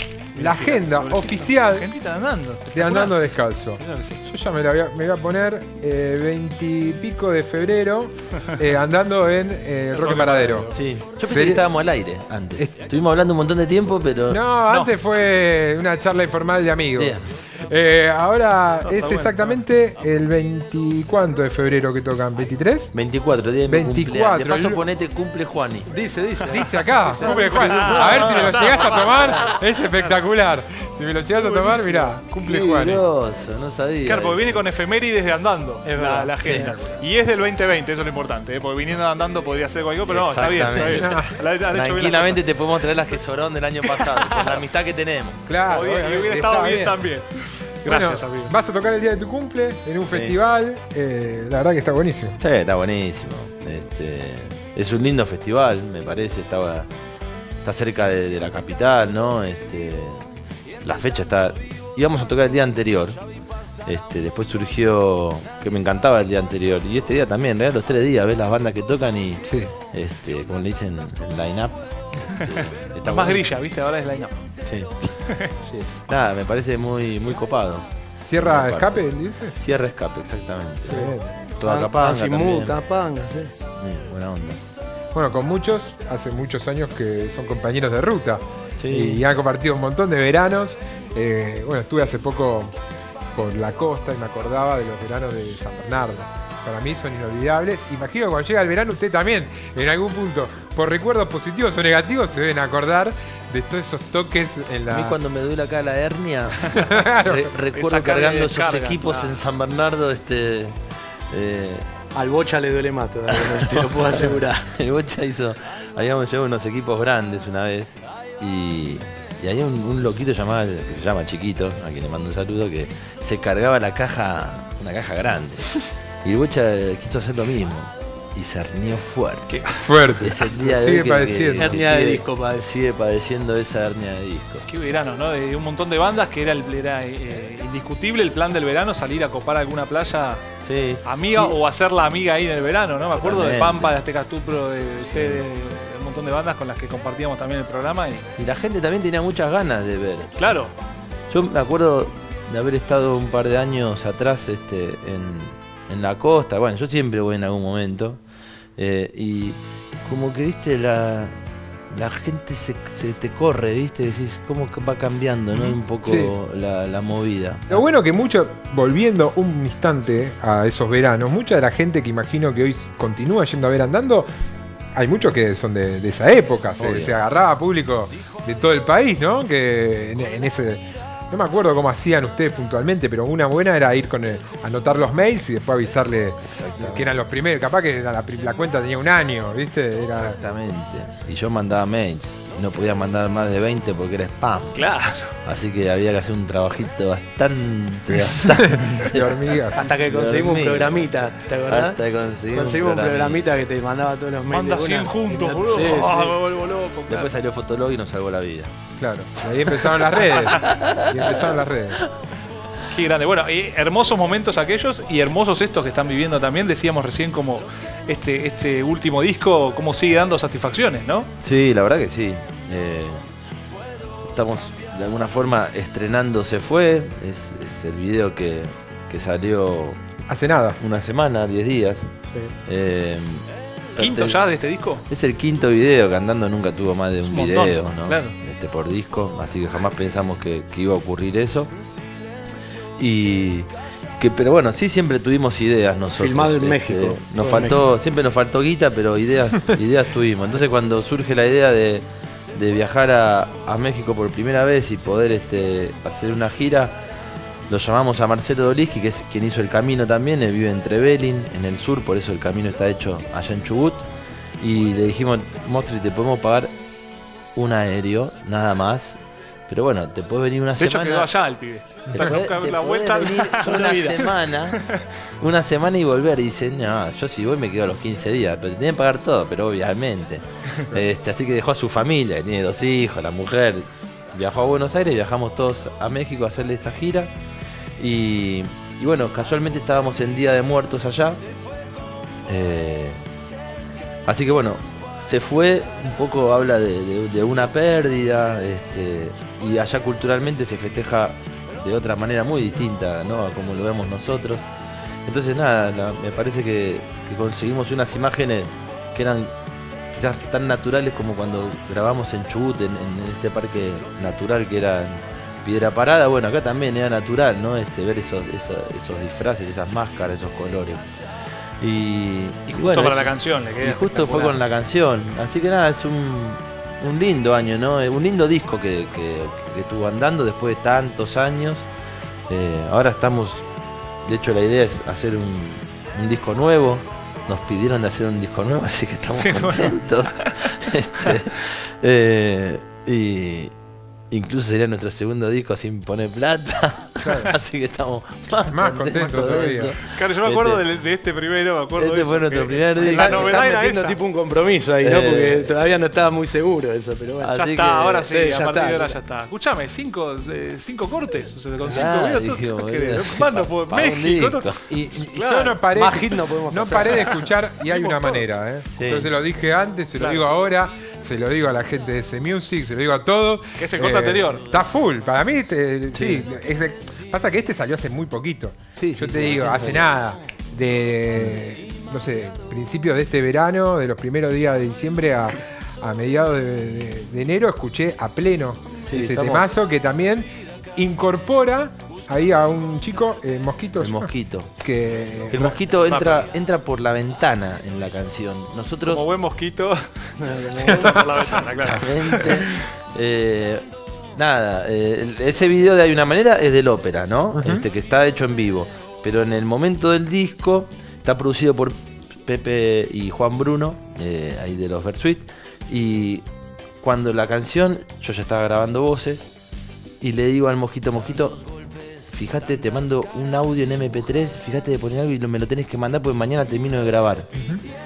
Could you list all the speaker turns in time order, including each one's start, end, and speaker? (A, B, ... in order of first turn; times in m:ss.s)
0:00.3-0:03.2 A
0:00.4-0:01.9 B
0:02.7-0:10.7 B
0:03.8-0:04.2 A
0:09.9-0:10.8 A
0:10.7-0:14.4 C
0:11.3-0:11.6 B
0:14.3-0:22.9 B
0:17.0-0:17.2 C
0:18.8-0:19.6 A
0:22.9-0:25.9 C
0:23.7-0:24.8 B
0:25.9-0:28.3 D
0:26.4-0:33.0 B
0:27.2-0:30.1 A
0:31.4-0:32.1 A
0:32.4-0:34.6 C
0:34.0-0:42.4 A
0:35.8-0:36.5 D
0:36.4-0:36.8 C
0:40.1-0:45.5 C
0:40.8-0:41.4 B
0:43.9-0:44.6 A
0:45.5-0:47.0 B
0:45.6-0:48.5 A
0:47.8-0:52.4 B
0:50.1-0:50.4 C
0:52.4-0:56.9 C
0:57.6-1:00.2 C
1:00.8-1:03.2 C
1:03.8-1:13.4 C
1:09.4-1:09.7 B
1:12.6-1:14.4 A
1:14.6-1:14.9 C
1:15.6-1:16.0 D
1:16.1-1:17.9 C
1:18.2-1:19.6 B
1:18.4-1:22.8 C
1:20.9-1:21.4 B
1:21.6-1:23.6 D
1:23.8-1:24.6 C
1:25.1-1:32.7 B
1:28.8-1:29.2 C
1:33.3-1:45.2 B
1:44.9-1:50.8 C
1:46.7-1:47.5 B
1:47.7-1:49.4 A
1:51.3-1:51.9 C
1:52.1-1:54.7 D
1:53.3-2:09.6 C
2:09.8-2:11.8 B
2:10.2-2:14.6 C
2:11.6-2:12.7 D
2:14.7-2:20.4 A
2:20.6-2:21.6 C
2:21.0-2:28.3 A
2:23.2-2:24.0 C
2:25.1-2:25.4 C
2:28.4-2:30.3 C
2:30.4-2:30.7 A
2:31.3-2:38.2 C
2:38.8-2:41.4 C
2:41.9-2:47.8 C
2:46.0-2:46.3 B
2:47.7-2:54.3 B
2:54.9-3:10.4 B
2:56.8-2:57.1 C
3:06.5-3:07.1 C
3:10.1-3:14.8 C
3:14.7-3:15.3 A
3:15.4-3:23.5 C
3:18.8-3:19.8 B
3:19.7-3:26.6 D
3:24.5-3:27.3 A
3:27.1-3:28.7 C
3:29.0-3:32.0 B
3:30.4-3:31.5 C
3:32.9-3:41.3 A
3:41.4-3:43.2 C
3:44.2-3:50.0 C
3:50.3-3:50.8 B
3:50.8-3:52.1 C
3:52.6-3:54.5 C
3:54.0-3:55.0 A
3:55.1-4:01.7 C
3:57.2-3:58.3 A
4:03.0-4:17.0 C
4:06.1-4:07.8 D
4:17.7-4:24.0 C
4:24.6-4:26.7 C
4:27.5-4:31.3 C
4:30.8-4:35.0 A
4:32.1-4:34.8 C
4:33.6-4:34.2 D
4:35.4-4:47.3 C
4:48.0-4:51.4 C
4:52.5-4:53.2 C
4:54.2-5:04.6 C
5:05.2-5:09.5 C
5:10.1-5:21.0 C
5:21.8-5:31.9 C
5:22.7-5:24.6 A
5:32.5-5:33.6 C
5:34.2-5:43.7 C
5:39.4-5:41.3 A
5:44.3-5:50.8 C
5:47.2-5:47.5 B
5:48.7-5:50.0 B
5:50.0-5:54.2 A
5:51.9-5:53.6 C
5:53.0-5:59.2 D
5:55.0-5:55.7 C
5:57.4-5:58.0 C
5:57.5-6:05.8 A
6:01.9-6:05.2 C
6:05.3-6:30.4 B
6:05.8-6:07.3 D
6:07.2-6:08.4 A
6:09.0-6:09.4 C
6:10.2-6:10.5 A
6:13.8-6:14.8 A
6:16.1-6:16.5 C
6:19.0-6:20.4 C
6:21.4-6:21.6 C
6:29.0-6:29.7 C
6:31.0-6:34.3 B
6:34.0-6:34.7 C
6:34.8-6:35.8 B
6:35.5-6:39.2 C
6:36.0-6:36.5 A
6:39.0-6:42.8 A
6:40.4-6:41.1 D
6:40.9-6:41.4 B
6:41.7-6:56.4 C
6:47.6-6:47.8 B
6:57.0-6:59.5 C
7:00.2-7:01.6 C
7:02.3-7:07.5 C